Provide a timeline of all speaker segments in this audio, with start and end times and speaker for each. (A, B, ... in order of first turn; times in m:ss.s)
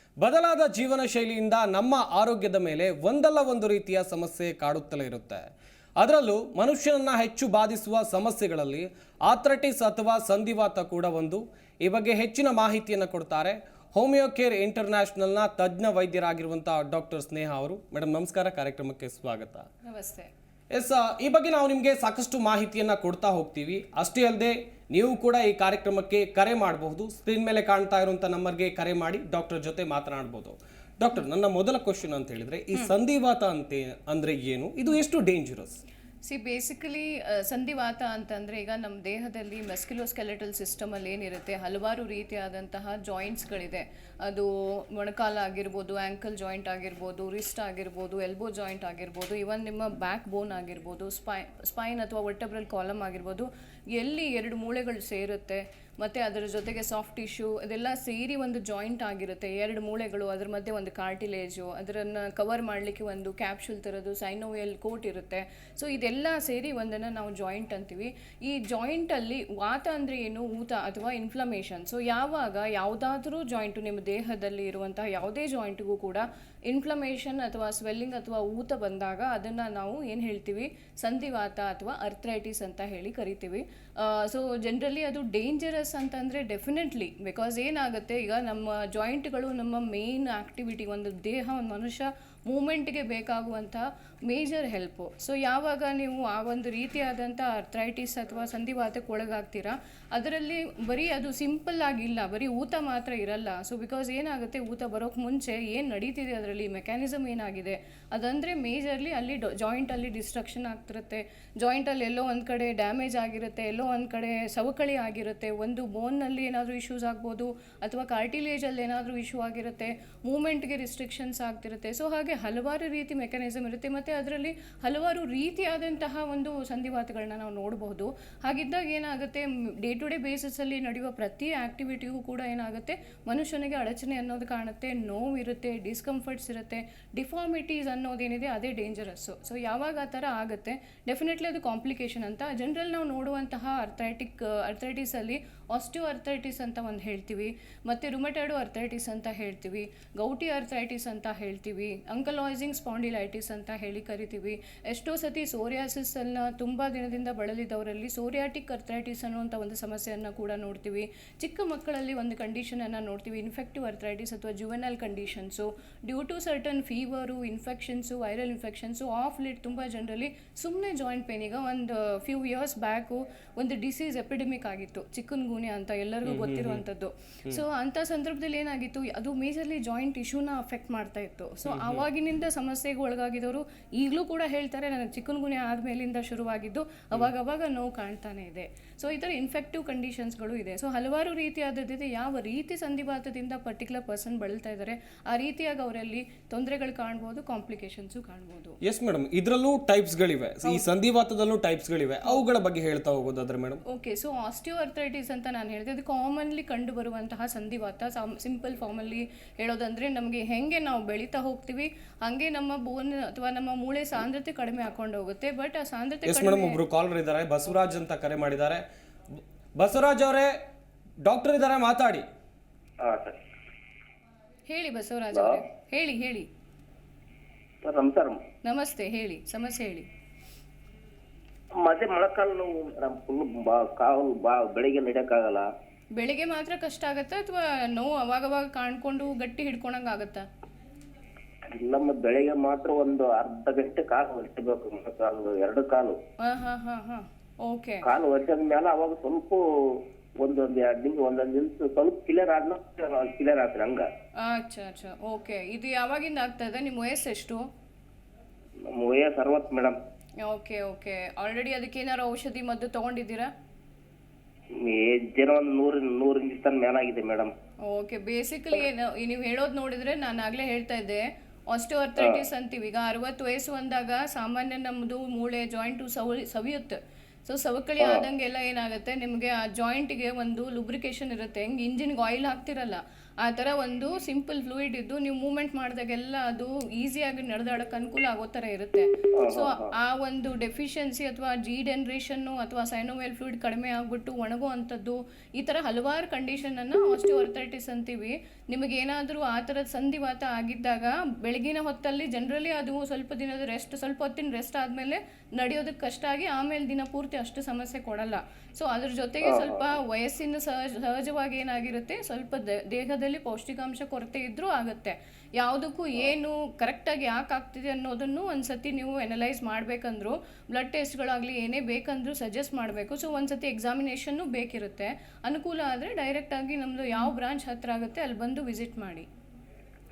0:00.2-0:19.7 A
0:19.9-0:20.3 B
0:20.7-0:35.8 A
0:36.3-3:18.8 B
2:56.3-2:56.8 A
3:01.6-3:02.0 A
3:18.8-3:23.8 A
3:23.9-3:36.8 B
3:36.3-3:38.8 A
3:39.3-3:40.5 A
3:41.2-3:42.3 A
3:43.0-3:43.4 C
3:44.7-3:46.5 B
3:47.8-3:48.4 C
3:48.6-3:50.1 B
3:51.8-3:55.7 C
3:56.2-4:00.4 B
4:01.8-4:06.2 C
4:06.4-4:08.0 B
4:08.1-4:14.1 C
4:14.4-4:17.7 B
4:18.9-4:20.0 C
4:20.4-4:23.5 B
4:24.8-4:27.5 C
4:27.9-5:29.3 B
4:49.4-4:49.9 C
5:09.4-5:09.8 C